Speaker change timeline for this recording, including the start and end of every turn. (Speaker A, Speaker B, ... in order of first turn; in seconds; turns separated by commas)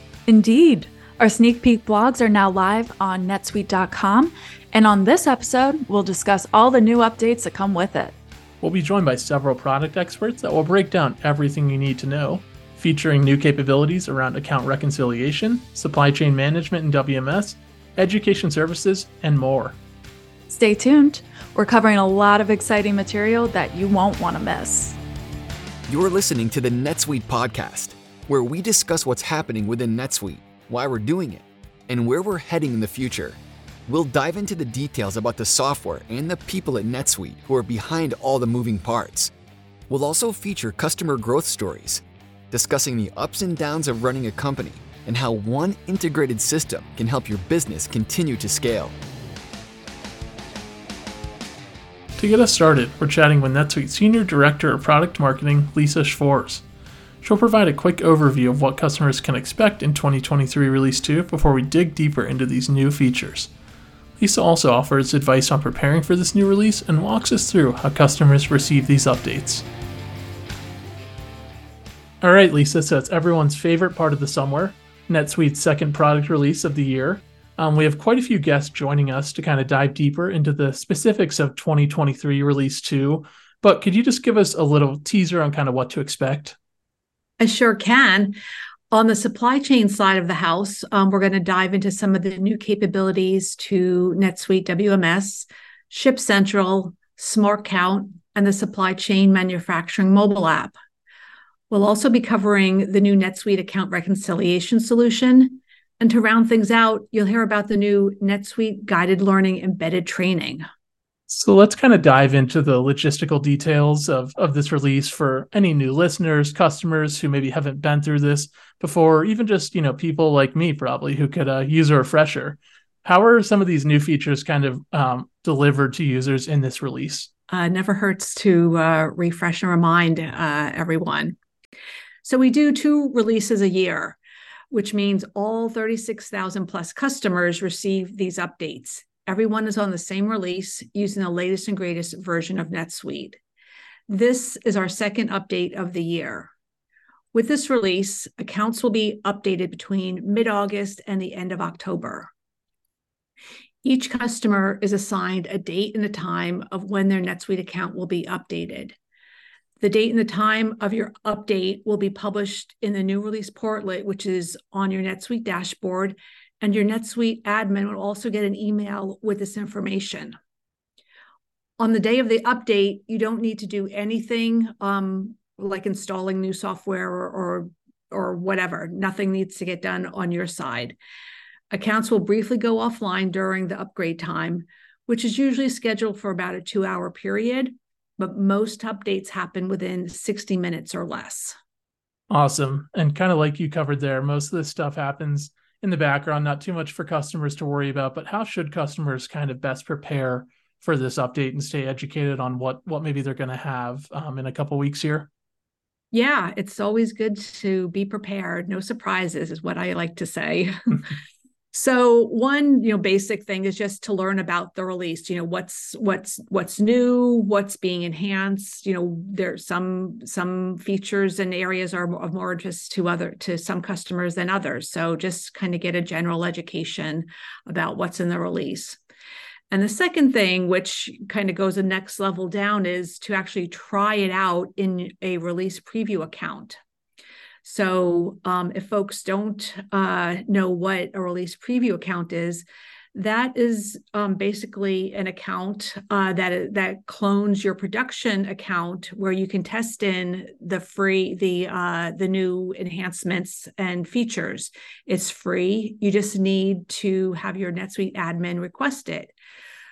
Speaker A: 0.3-8.2, Speaker B: 8.6-19.8, Speaker A: 20.5-25.0, Speaker C: 25.9-39.3, Speaker C: 39.9-49.0, Speaker B: 52.2-56.6, Speaker B: 57.2-63.5, Speaker B: 64.2-69.6, Speaker B: 72.2-86.6, Speaker D: 87.4-88.4, Speaker D: 88.9-100.8, Speaker D: 101.7-110.7, Speaker B: 111.3-127.3, Speaker D: 127.5-131.4, Speaker D: 132.2-134.2, Speaker D: 134.7-143.4, Speaker D: 144.1-146.5, Speaker D: 147.3-152.3, Speaker D: 153.8-159.0, Speaker D: 159.8-170.3, Speaker D: 171.8-181.0, Speaker D: 181.7-191.6, Speaker B: 192.3-205.3, Speaker D: 206.1-211.1, Speaker D: 211.7-229.0, Speaker D: 229.7-236.8, Speaker D: 237.6-259.3